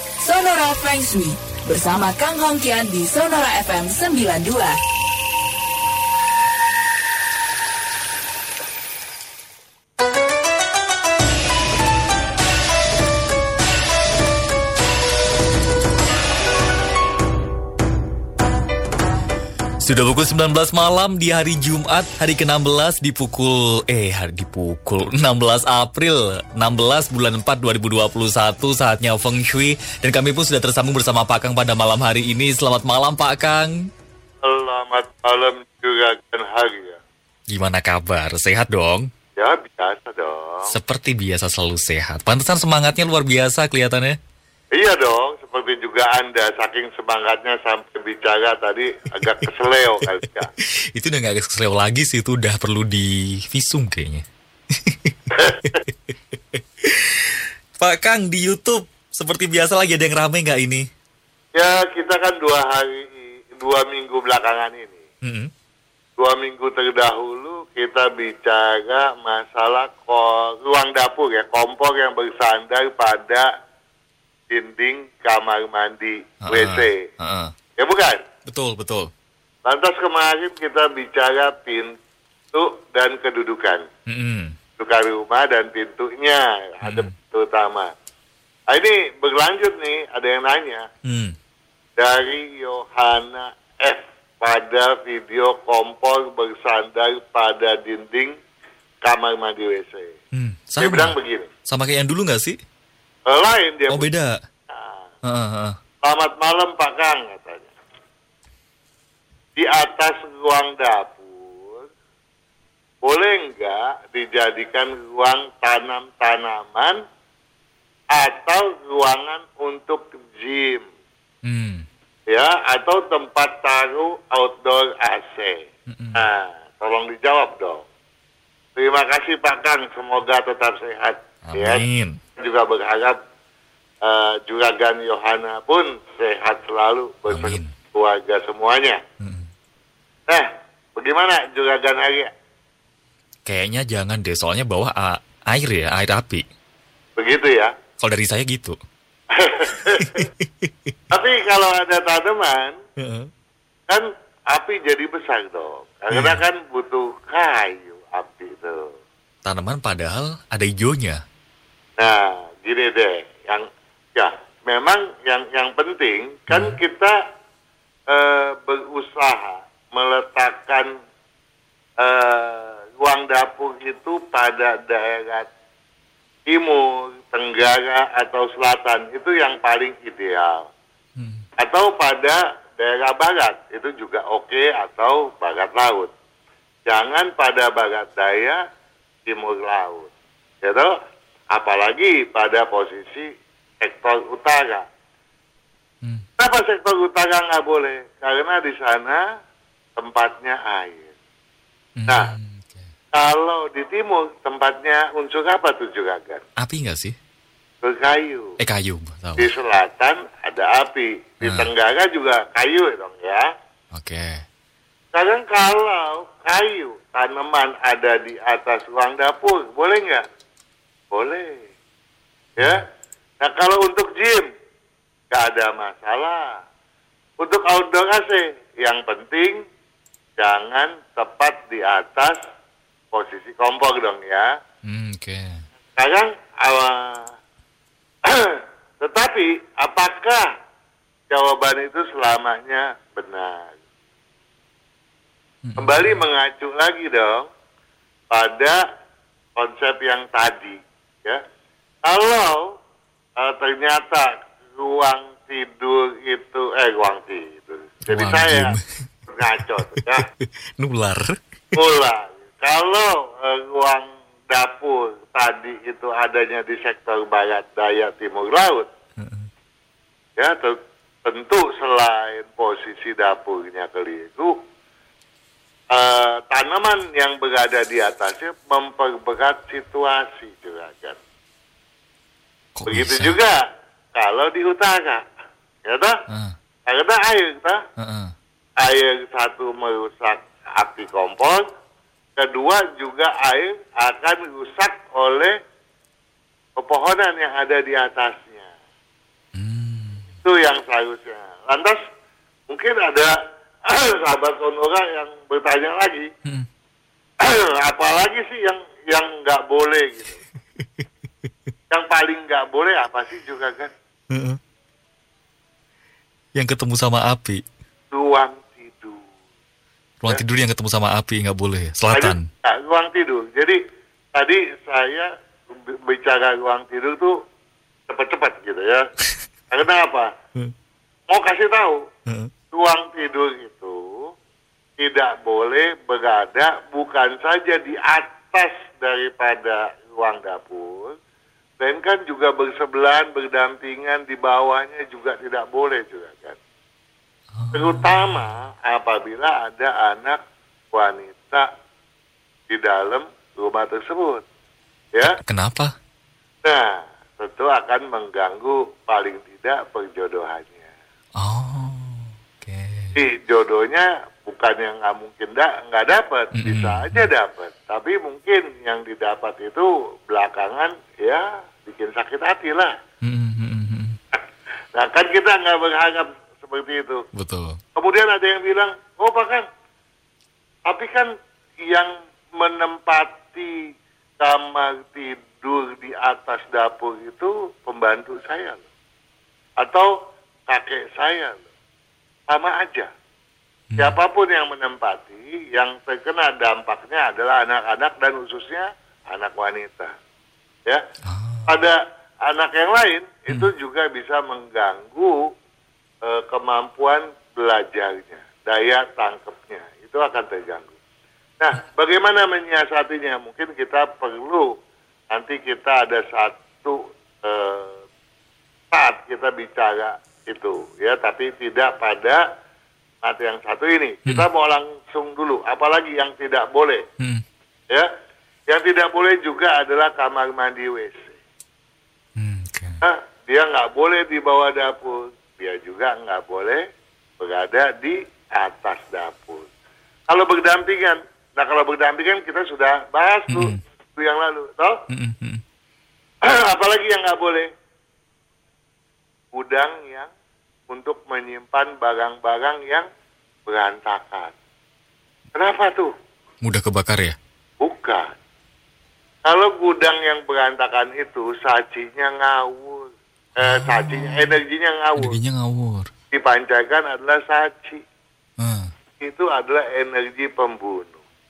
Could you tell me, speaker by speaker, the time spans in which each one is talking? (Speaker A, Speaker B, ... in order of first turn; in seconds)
Speaker A: 0.2-4.8
Speaker B: 19.8-33.9, 37.5-39.1, 40.7-44.2, 50.2-60.9, 65.2-65.5, 76.5-77.5, 78.5-79.1, 84.1-84.6, 86.8-87.1, 91.0-91.4, 100.3-102.6, 103.9-104.4, 105.2-105.8, 121.4-121.9, 125.9-126.3, 131.4-132.2, 137.3-137.7, 139.2-139.5, 143.4-146.5, 148.0-148.8, 149.9-150.9, 153.0-153.3, 156.1-156.4, 159.4-161.2, 166.5-166.8, 181.2-181.4, 202.0-202.9, 206.6-207.2, 208.6-209.5, 211.4-211.7, 213.9-214.4, 234.8-235.6, 245.6-246.2, 258.1-258.8, 259.8-261.4, 269.2-269.5, 282.8-283.4, 286.3-286.6, 288.0-288.4, 299.5-300.2, 310.8-311.1, 314.3-314.6, 316.6-317.6, 320.2-322.5, 347.5-348.5, 355.2-355.9, 361.4-363.2, 366.5-367.3, 373.2-374.2, 377.3-377.8, 393.9-394.2, 401.2-401.7, 432.4-433.0, 443.5-443.8, 445.1-445.6, 456.6-457.4, 463.6-464.6, 465.2-466.1, 468.6-468.9
Speaker C: 34.4-37.0, 39.4-40.7, 44.8-50.5, 55.3-55.8, 61.5-65.0, 66.2-73.5, 74.5-77.1, 77.8-78.2, 79.7-82.0, 82.5-83.9, 84.8-87.9, 88.7-90.9, 92.0-98.4, 99.0-100.2, 100.8-101.5, 103.3-104.1, 104.7-105.1, 106.0-107.7, 109.6-111.9, 113.0-117.0, 118.1-120.9, 122.3-127.9, 128.8-131.8, 132.4-133.2, 134.0-139.0, 140.3-142.3, 147.2-147.7, 149.3-150.2, 151.1-152.8, 153.9-158.9, 162.0-167.2, 168.1-170.9, 172.0-175.5, 176.5-180.7, 181.6-186.1, 186.9-188.6, 189.3-190.1, 190.6-190.9, 191.5-193.3, 193.8-194.8, 196.4-199.2, 200.0-201.1, 203.1-206.4, 207.8-208.6, 209.4-213.5, 215.1-220.2, 221.1-221.7, 222.6-222.8, 223.4-224.5, 225.3-226.6, 227.4-229.6, 230.4-232.4, 233.1-234.5, 236.0-237.3, 238.2-240.5, 241.3-243.8, 245.8-247.5, 248.3-248.8, 249.6-251.4, 252.1-252.7, 253.4-260.3, 261.8-268.9, 270.4-274.6, 275.9-281.2, 282.9-283.6, 284.1-285.2, 285.9-286.2, 286.9-287.8, 288.8-291.7, 292.4-295.6, 296.8-298.7, 300.4-302.0, 302.7-303.3, 303.9-306.3, 307.4-310.4, 311.9-313.9, 318.1-319.2, 322.1-323.8, 324.3-325.3, 325.9-327.4, 328.1-329.1, 329.7-330.3, 331.3-332.0, 332.7-334.1, 335.0-341.2, 341.8-346.6, 347.7-350.4, 350.9-351.7, 352.7-354.4, 356.6-360.9, 363.1-372.9, 374.9-377.2, 378.0-379.7, 380.9-381.3, 381.9-383.8, 384.4-388.8, 389.8-390.1, 390.7-391.7, 392.5-393.1, 394.0-400.1, 401.7-405.4, 406.2-410.9, 411.6-414.7, 415.3-418.0, 418.9-422.4, 423.2-427.0, 428.7-431.4, 433.0-436.9, 437.4-439.7, 440.3-445.0, 446.4-447.7, 449.5-450.3, 450.9-453.1, 453.7-454.5, 455.6-456.1, 457.8-458.4, 459.4-465.4, 466.3-468.0, 469.2-471.2